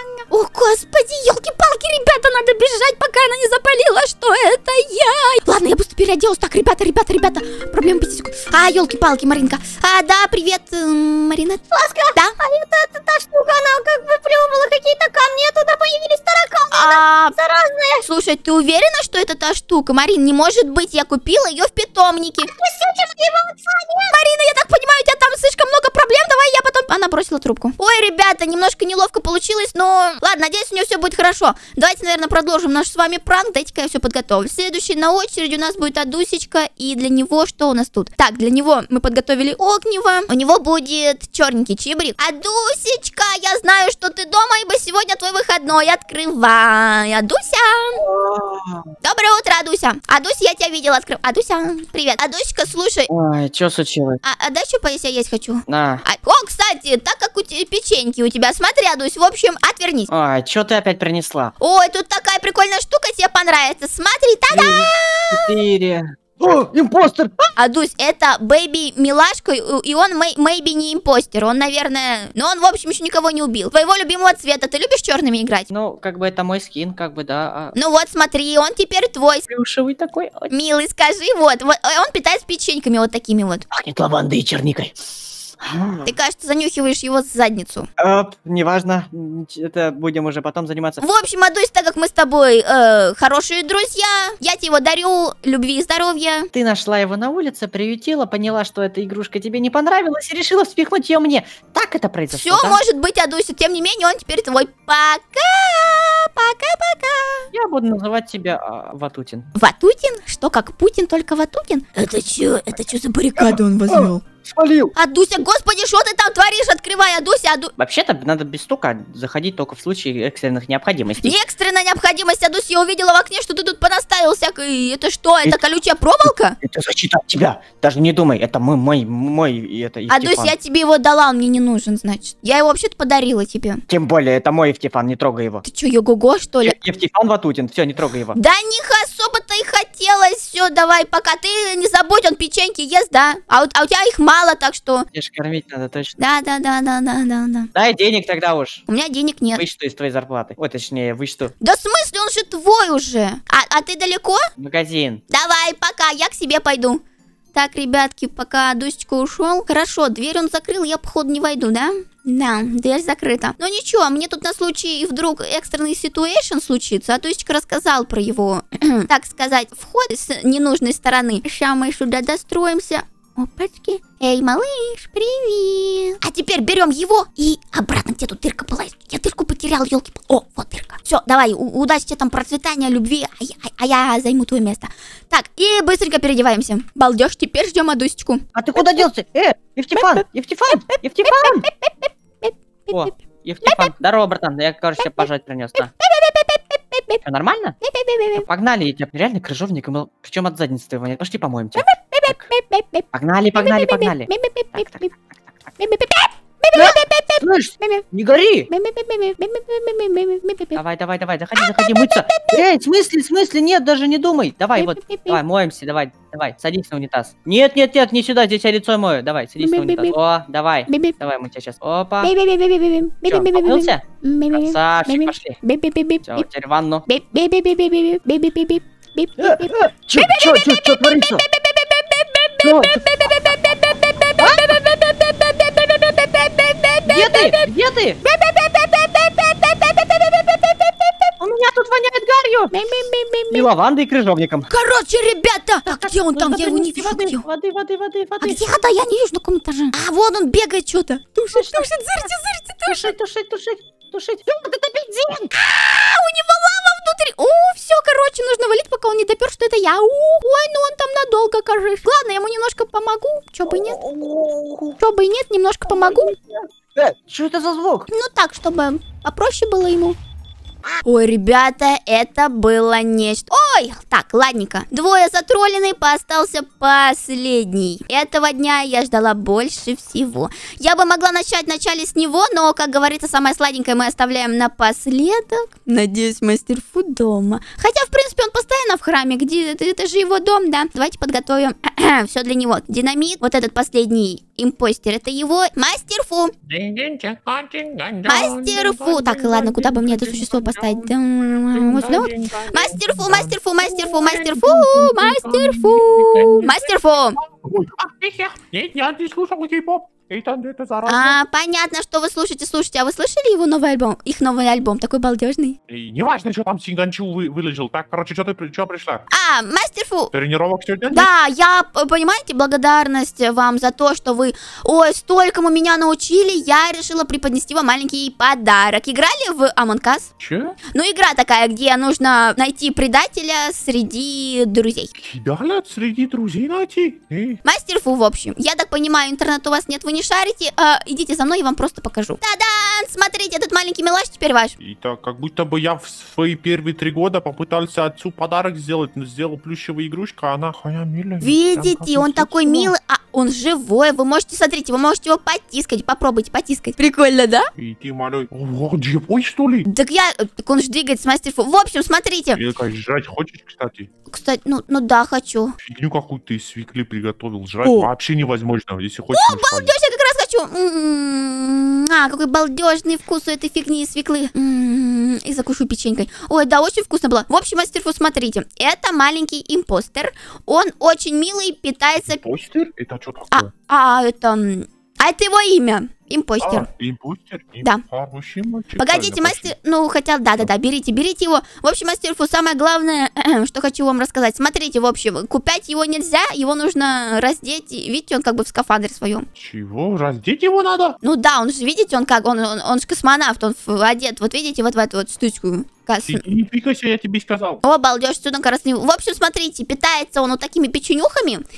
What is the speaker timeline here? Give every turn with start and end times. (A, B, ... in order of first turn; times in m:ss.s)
0:00.3-0:12.4 A
0:11.7-0:18.0 B
0:16.7-0:17.4 A
0:18.0-0:22.5 A
0:22.5-0:24.1 B
0:24.1-0:48.0 A
0:48.0-0:48.9 C
0:49.0-0:53.1 A
0:53.1-0:54.2 C
0:54.2-1:00.1 A
0:55.7-0:56.0 C
1:00.1-1:01.5 C
1:01.6-1:05.5 A
1:04.5-1:07.5 C
1:07.6-1:15.7 A
1:15.7-1:17.7 C
1:17.7-1:19.4 A
1:19.5-1:20.5 C
1:20.5-1:23.6 A
1:23.7-1:26.1 C
1:26.1-1:27.9 A
1:28.0-1:31.0 C
1:31.0-1:36.5 A
1:36.5-1:42.8 C
1:42.3-1:47.5 A
1:47.5-1:49.5 C
1:49.5-1:54.2 A
1:53.4-1:54.9 C
1:55.0-1:57.7 A
1:57.8-2:01.4 C
2:01.2-2:06.6 A
2:06.6-2:10.5 C
2:10.1-2:13.8 A
2:13.9-2:15.6 C
2:15.6-2:16.8 A
2:16.6-2:18.4 C
2:18.3-2:25.1 A
2:25.1-2:26.1 C
2:26.2-2:27.7 A
2:27.7-2:28.8 C
2:28.9-2:29.6 A
2:29.5-2:31.5 C
2:31.6-2:34.4 A
2:34.6-2:35.2 C
2:35.3-2:37.0 A
2:37.5-3:09.1 A
3:08.5-3:11.7 C
3:09.9-3:13.1 A
3:12.9-3:15.9 C
3:13.6-3:13.9 A
3:15.0-3:17.2 A
3:17.2-3:17.8 C
3:17.8-3:18.4 A
3:18.4-3:22.5 C
3:21.8-3:25.1 A
3:23.1-3:25.5 C
3:25.8-3:28.0 A
3:26.7-3:28.7 C
3:28.7-3:30.8 A
3:30.7-3:42.3 C
3:31.5-3:32.6 A
3:34.7-3:35.4 A
3:39.6-3:40.2 A
3:40.9-3:41.2 A
3:42.2-3:46.5 A
3:43.3-3:45.6 C
3:46.2-3:47.0 C
3:47.1-3:57.7 A
3:49.4-3:51.4 C
3:52.6-3:53.0 C
3:57.0-3:58.2 C
3:58.2-4:01.3 A
4:01.4-4:02.7 C
4:02.7-4:03.7 A
4:03.5-4:04.7 C
4:04.7-4:07.4 A
4:06.0-4:08.6 C
4:08.4-4:13.2 A
4:11.5-4:12.3 C
4:12.8-4:14.5 C
4:14.5-4:24.0 A
4:23.7-4:25.0 C
4:25.0-4:26.3 A
4:25.9-4:28.1 C
4:28.1-4:30.2 A
4:31.0-4:56.5 A
4:56.7-5:01.1 D
4:58.2-5:07.4 A
5:01.7-5:11.4 D
5:11.0-5:15.8 A
5:15.9-5:19.2 D
5:19.3-5:20.3 A
5:20.3-5:21.3 D
5:21.1-5:30.3 A
5:30.4-5:30.8 D
5:30.9-5:35.1 A
5:35.1-5:37.6 D
5:37.6-5:44.8 A
5:44.8-5:52.9 D
5:51.4-5:57.7 A
5:57.8-5:59.9 D
5:59.9-6:02.6 A
6:02.5-6:04.1 D
6:04.3-6:05.7 A
6:05.8-6:09.9 D
6:09.3-6:22.4 A
6:22.3-6:23.7 D
6:23.5-6:26.9 A
6:26.6-6:29.7 D
6:29.0-6:39.5 A
6:39.6-6:41.2 D
6:41.2-6:46.4 A
6:46.2-6:47.8 D
6:47.8-6:51.6 A